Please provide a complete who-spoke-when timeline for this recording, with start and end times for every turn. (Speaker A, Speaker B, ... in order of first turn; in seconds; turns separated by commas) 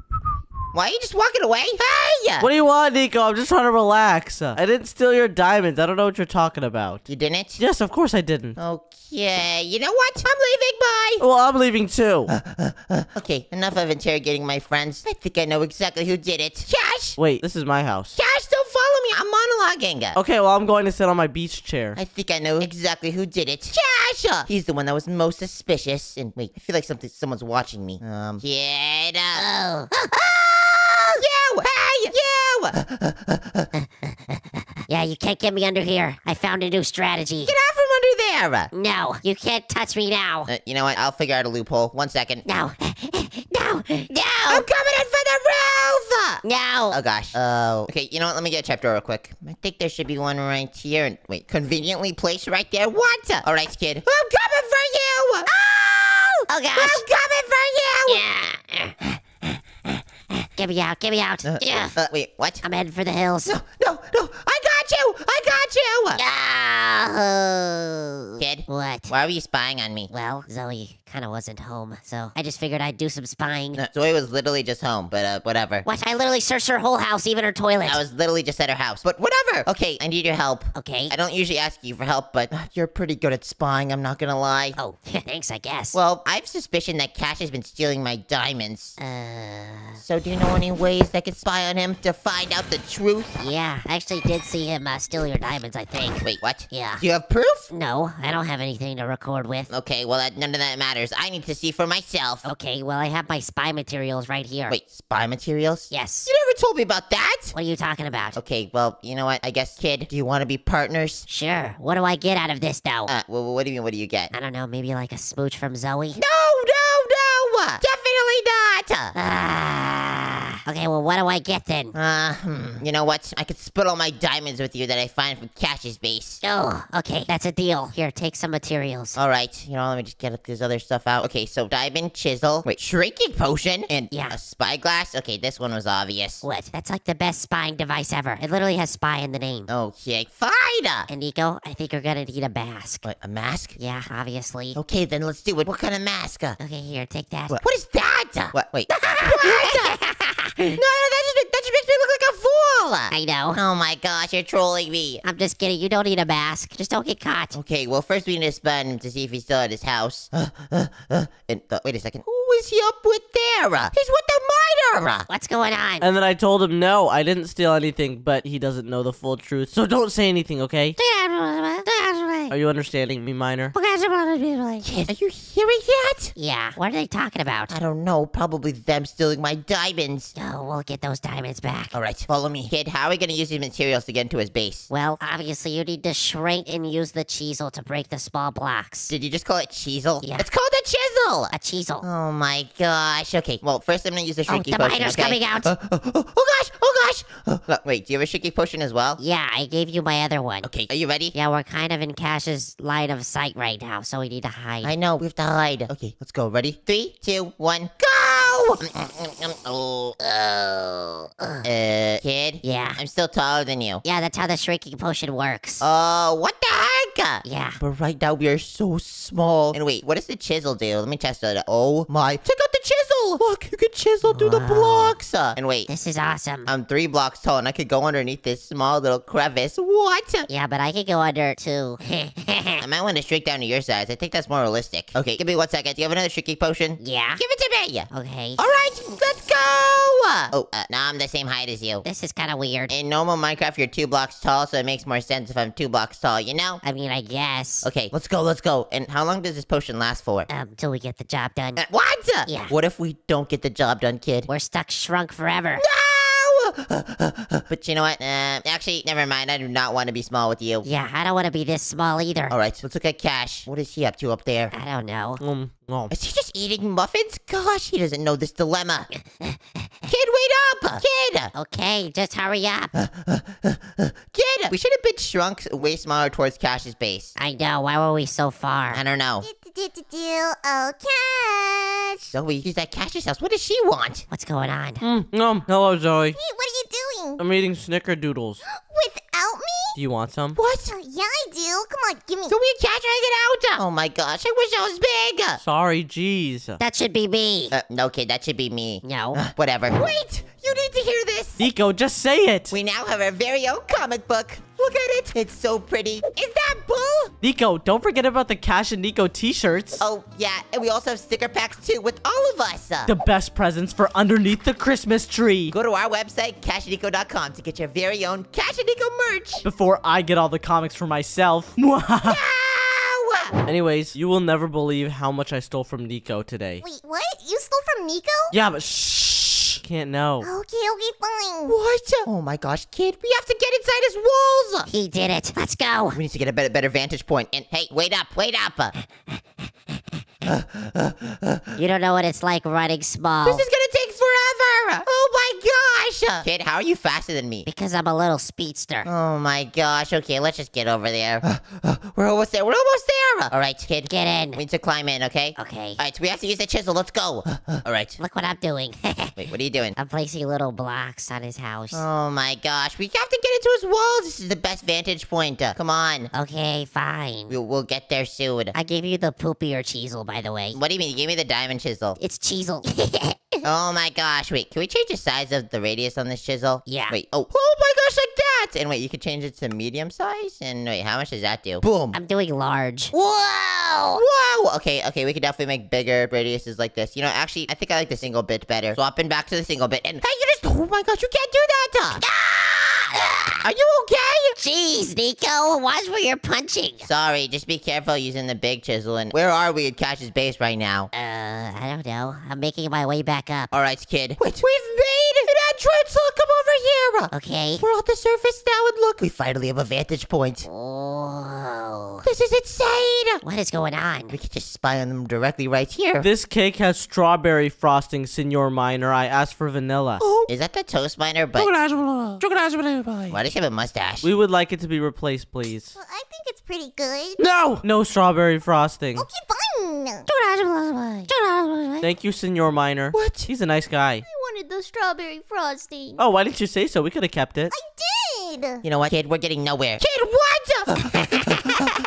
Speaker A: 0.7-2.5, Speaker B: 2.4-8.6, Speaker A: 7.1-7.6, Speaker A: 8.6-11.2, Speaker B: 11.2-12.3, Speaker A: 12.4-17.2, Speaker B: 17.2-18.1, Speaker A: 18.1-20.2, Speaker B: 20.1-22.0, Speaker A: 21.9-29.4, Speaker C: 29.4-31.1, Speaker A: 31.2-33.7, Speaker C: 33.7-37.5, Speaker A: 37.5-38.7, Speaker C: 38.7-40.5, Speaker A: 40.5-42.4, Speaker C: 42.4-44.7, Speaker A: 44.5-55.5, Speaker C: 46.4-47.0, Speaker C: 55.5-57.0, Speaker A: 56.7-58.2, Speaker C: 58.1-59.0, Speaker C: 60.5-62.0, Speaker A: 61.4-62.6, Speaker C: 62.6-63.6, Speaker A: 63.5-66.2, Speaker C: 66.1-69.1, Speaker A: 68.4-70.1, Speaker C: 70.1-73.8, Speaker A: 73.8-75.8, Speaker C: 75.8-78.0, Speaker A: 77.8-84.8, Speaker C: 80.7-81.1, Speaker C: 84.8-86.0, Speaker A: 85.9-89.0, Speaker C: 89.0-90.0, Speaker A: 90.0-93.4, Speaker C: 93.4-97.0, Speaker A: 96.2-97.7, Speaker C: 97.7-99.7, Speaker A: 99.7-102.5, Speaker C: 102.4-104.7, Speaker A: 104.7-107.5, Speaker C: 105.9-106.3, Speaker C: 107.5-108.4, Speaker A: 108.3-111.2, Speaker C: 111.3-113.1, Speaker A: 113.1-114.3, Speaker C: 114.3-116.2, Speaker A: 116.2-119.1, Speaker C: 119.1-121.9, Speaker A: 121.9-126.4, Speaker C: 126.4-129.2, Speaker A: 129.2-136.4, Speaker C: 134.1-134.4, Speaker C: 136.4-139.7, Speaker A: 139.7-141.1, Speaker C: 141.1-143.1, Speaker A: 143.0-143.8, Speaker C: 143.8-144.8, Speaker A: 144.8-146.6, Speaker C: 146.6-147.6, Speaker A: 147.5-149.9, Speaker C: 148.9-150.8, Speaker A: 150.7-155.2, Speaker C: 153.1-153.6, Speaker C: 155.2-157.6, Speaker A: 157.5-165.2, Speaker C: 165.3-166.1, Speaker B: 166.0-171.0, Speaker C: 171.0-172.5, Speaker B: 172.5-173.7, Speaker C: 173.7-174.8, Speaker A: 174.8-176.3, Speaker C: 176.3-177.7, Speaker A: 177.7-180.3, Speaker C: 180.3-182.0, Speaker A: 181.9-184.9, Speaker C: 184.9-189.1, Speaker A: 189.1-199.2, Speaker C: 190.2-190.5, Speaker C: 191.5-192.0, Speaker C: 194.5-195.7, Speaker C: 199.2-200.7, Speaker A: 200.6-201.3, Speaker C: 201.3-204.9, Speaker A: 204.8-210.2, Speaker C: 210.3-211.7, Speaker A: 211.6-214.0, Speaker C: 212.6-213.0, Speaker C: 214.0-215.8, Speaker A: 215.8-225.9, Speaker C: 217.4-217.8, Speaker C: 224.3-225.2, Speaker C: 225.9-226.7, Speaker A: 226.7-230.5, Speaker C: 230.5-232.8, Speaker A: 232.8-242.0, Speaker C: 237.0-237.4, Speaker C: 238.1-238.6, Speaker C: 242.0-242.9, Speaker A: 242.9-246.8, Speaker C: 246.8-247.9, Speaker A: 247.8-250.5, Speaker C: 250.5-251.8, Speaker A: 251.8-254.5, Speaker C: 252.4-252.7, Speaker C: 254.5-255.8, Speaker A: 255.8-260.9, Speaker C: 260.8-262.5, Speaker A: 262.5-264.7, Speaker C: 264.7-265.4, Speaker B: 265.4-266.1, Speaker A: 266.1-269.1, Speaker C: 269.1-269.9, Speaker A: 270.1-271.5, Speaker C: 271.5-272.9, Speaker A: 273.0-277.3, Speaker C: 277.4-279.0, Speaker A: 278.9-279.4, Speaker D: 279.4-282.3, Speaker A: 282.3-284.2, Speaker C: 284.3-285.0, Speaker B: 285.0-286.4, Speaker D: 286.4-287.4, Speaker B: 287.4-288.6, Speaker D: 288.7-289.9, Speaker B: 289.9-290.6, Speaker A: 290.5-290.9, Speaker D: 290.9-292.5, Speaker A: 292.5-295.6, Speaker B: 295.6-296.8, Speaker C: 296.8-297.7, Speaker A: 297.7-301.7, Speaker C: 299.0-299.4, Speaker B: 301.6-302.7, Speaker A: 302.7-307.3, Speaker B: 307.4-310.0, Speaker A: 310.0-313.1, Speaker B: 313.1-315.7, Speaker A: 315.7-319.6, Speaker B: 319.6-322.4, Speaker A: 322.2-323.6, Speaker B: 323.6-326.8, Speaker D: 326.8-328.5, Speaker B: 328.5-330.5, Speaker D: 330.4-331.7, Speaker A: 331.6-334.9, Speaker C: 334.9-336.2, Speaker A: 336.1-338.9, Speaker A: 340.4-341.6, Speaker C: 341.8-343.6, Speaker A: 343.4-347.7, Speaker C: 347.6-349.1, Speaker A: 349.0-358.2, Speaker C: 354.1-354.6, Speaker C: 355.6-356.0, Speaker C: 358.2-359.4, Speaker A: 359.4-359.9, Speaker C: 359.9-362.0, Speaker A: 361.9-366.3, Speaker C: 366.3-367.5, Speaker A: 367.5-368.7, Speaker C: 368.7-370.8, Speaker A: 370.7-372.2, Speaker C: 372.2-373.6, Speaker A: 373.6-382.2, Speaker C: 376.9-377.1, Speaker C: 382.1-384.2, Speaker A: 384.1-392.2, Speaker C: 392.1-393.6, Speaker A: 393.6-394.6, Speaker C: 394.6-397.1, Speaker A: 397.0-401.1, Speaker C: 401.1-403.7, Speaker A: 403.7-410.7, Speaker C: 407.3-407.8, Speaker C: 410.7-412.2, Speaker A: 412.2-413.4, Speaker C: 413.4-414.3, Speaker A: 414.3-416.3, Speaker B: 416.2-420.3, Speaker A: 420.5-421.7, Speaker B: 421.5-423.3, Speaker A: 423.3-424.3, Speaker B: 424.2-425.9, Speaker D: 425.9-427.4, Speaker B: 427.4-429.3, Speaker D: 429.2-430.3, Speaker C: 430.3-432.1, Speaker B: 432.0-434.2, Speaker A: 433.1-433.5, Speaker D: 434.3-436.2, Speaker B: 436.2-437.7, Speaker D: 437.7-438.8, Speaker A: 438.8-441.6, Speaker C: 441.1-441.9